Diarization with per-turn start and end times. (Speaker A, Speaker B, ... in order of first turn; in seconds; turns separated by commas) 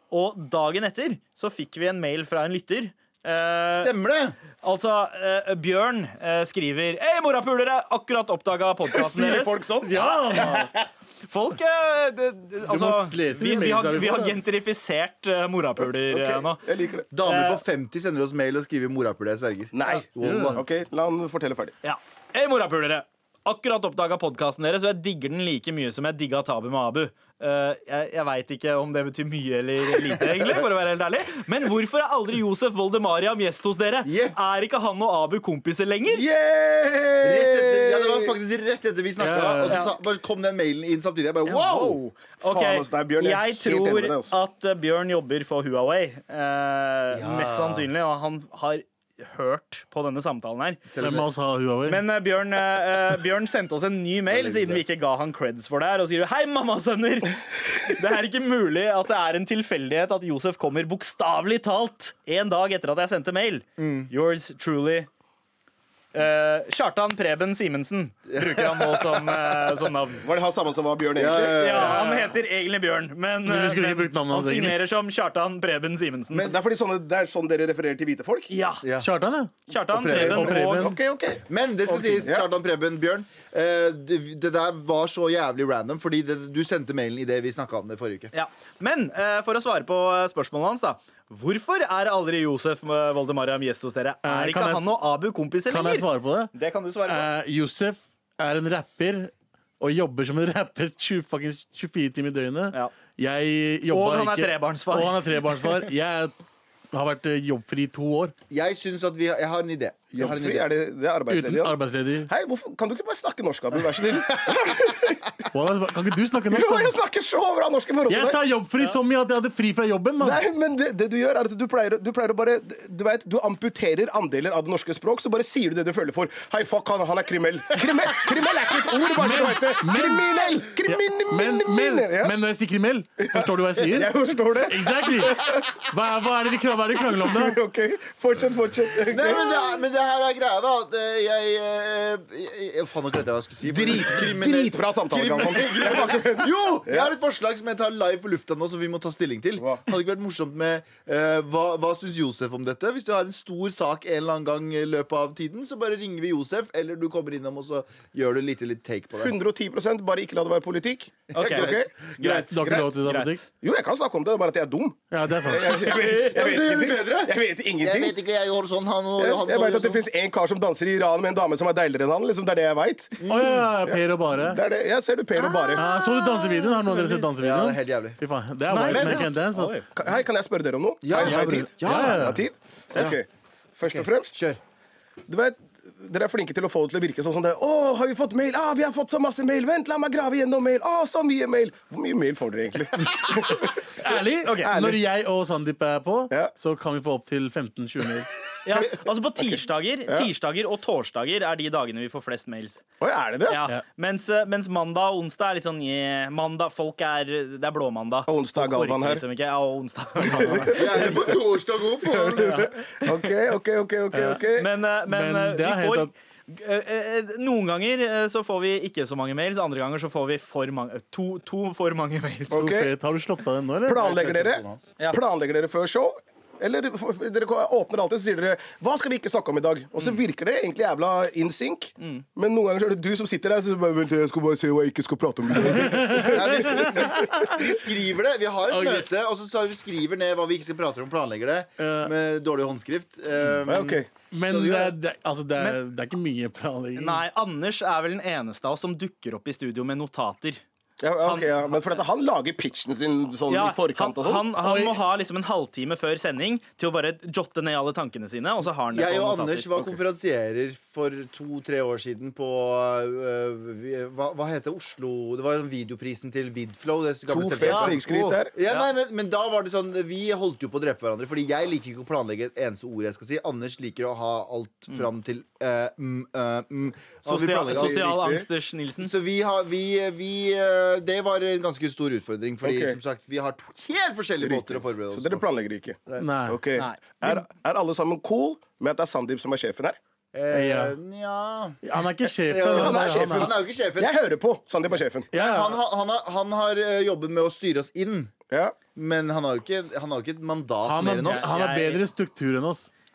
Speaker A: 0.1-3.9, Speaker B: 3.7-4.4, Speaker A: 4.6-10.7, Speaker C: 8.8-10.8, Speaker D: 9.8-10.7, Speaker A: 11.3-16.6, Speaker D: 12.7-14.5, Speaker C: 16.0-17.1, Speaker B: 17.1-20.6, Speaker A: 17.2-17.6, Speaker C: 19.7-21.8, Speaker D: 20.2-20.6, Speaker A: 21.8-36.3, Speaker B: 34.0-34.4, Speaker C: 36.1-38.3, Speaker B: 37.2-42.0, Speaker D: 39.2-39.8, Speaker A: 39.7-40.0, Speaker A: 41.5-50.8, Speaker C: 42.4-44.4, Speaker B: 47.1-47.9, Speaker B: 50.9-51.3, Speaker D: 51.0-52.0, Speaker A: 51.9-65.1, Speaker C: 54.4-54.8, Speaker B: 63.8-64.1, Speaker A: 66.1-70.2, Speaker B: 68.3-69.4, Speaker C: 70.2-72.0, Speaker B: 71.2-72.0, Speaker A: 71.5-76.5, Speaker D: 72.0-72.2, Speaker D: 73.5-74.8, Speaker C: 76.3-78.5, Speaker A: 78.5-78.8, Speaker B: 78.8-79.1, Speaker D: 79.0-79.5, Speaker A: 79.7-81.0, Speaker B: 79.9-80.5, Speaker D: 80.1-81.0, Speaker C: 80.1-81.4, Speaker B: 81.5-88.3, Speaker A: 81.9-82.2, Speaker C: 82.1-82.5, Speaker A: 88.3-97.3, Speaker D: 94.2-95.0, Speaker D: 95.7-96.5, Speaker D: 97.1-106.3, Speaker A: 103.9-105.2, Speaker D: 106.9-108.3, Speaker B: 108.5-110.7, Speaker C: 110.1-115.5, Speaker D: 111.3-112.3, Speaker D: 115.5-117.0, Speaker C: 116.5-118.4, Speaker D: 118.1-120.4, Speaker C: 120.2-132.3, Speaker D: 129.1-137.6, Speaker C: 133.2-135.6, Speaker C: 137.2-139.6, Speaker B: 139.1-159.3, Speaker C: 143.7-147.1, Speaker C: 159.2-163.0, Speaker B: 161.3-162.5, Speaker A: 161.3-162.5, Speaker D: 162.5-163.4, Speaker A: 163.0-163.4, Speaker C: 163.6-168.2, Speaker D: 165.1-165.9, Speaker A: 165.9-166.3, Speaker B: 166.2-170.0, Speaker C: 169.2-173.3, Speaker B: 173.2-173.6, Speaker D: 173.3-174.6, Speaker C: 173.8-175.9, Speaker D: 175.8-179.8, Speaker A: 176.0-177.2, Speaker B: 177.4-178.2, Speaker A: 178.7-179.9, Speaker B: 178.8-179.2, Speaker C: 179.9-184.3, Speaker B: 181.0-182.4, Speaker D: 181.2-182.4, Speaker B: 183.9-184.6, Speaker C: 185.3-194.1, Speaker D: 194.0-198.3, Speaker A: 194.4-194.8, Speaker C: 194.6-195.0, Speaker A: 198.7-202.8, Speaker C: 199.4-200.3, Speaker C: 203.0-203.6, Speaker A: 203.5-211.4, Speaker C: 208.3-209.2, Speaker C: 210.2-211.3, Speaker B: 210.7-212.7, Speaker C: 212.1-214.7, Speaker A: 212.4-213.3, Speaker D: 214.1-214.4, Speaker A: 214.5-222.7, Speaker D: 215.1-216.1, Speaker C: 222.5-222.9, Speaker D: 222.5-224.1, Speaker C: 223.8-237.6, Speaker B: 224.0-224.9, Speaker A: 232.0-232.2, Speaker D: 235.6-237.6, Speaker B: 236.2-244.9, Speaker D: 238.7-239.1, Speaker D: 241.8-242.1, Speaker C: 243.6-244.1, Speaker D: 244.3-247.2, Speaker A: 247.0-250.6, Speaker C: 251.0-254.5, Speaker A: 251.2-251.8, Speaker A: 253.5-259.7, Speaker D: 254.6-255.0, Speaker B: 258.9-278.1, Speaker C: 267.3-268.6, Speaker A: 267.6-268.9, Speaker A: 277.3-279.1, Speaker C: 277.7-278.5, Speaker B: 279.0-285.4, Speaker C: 282.6-283.0, Speaker C: 284.4-290.0, Speaker D: 286.2-286.6, Speaker A: 286.8-287.4, Speaker B: 290.3-291.8, Speaker D: 290.5-291.0, Speaker D: 291.8-293.5, Speaker B: 292.5-294.1, Speaker C: 292.6-295.3, Speaker D: 295.3-295.8, Speaker B: 295.3-298.3, Speaker C: 298.5-298.8, Speaker B: 298.9-301.5, Speaker D: 300.8-302.9, Speaker A: 301.3-302.1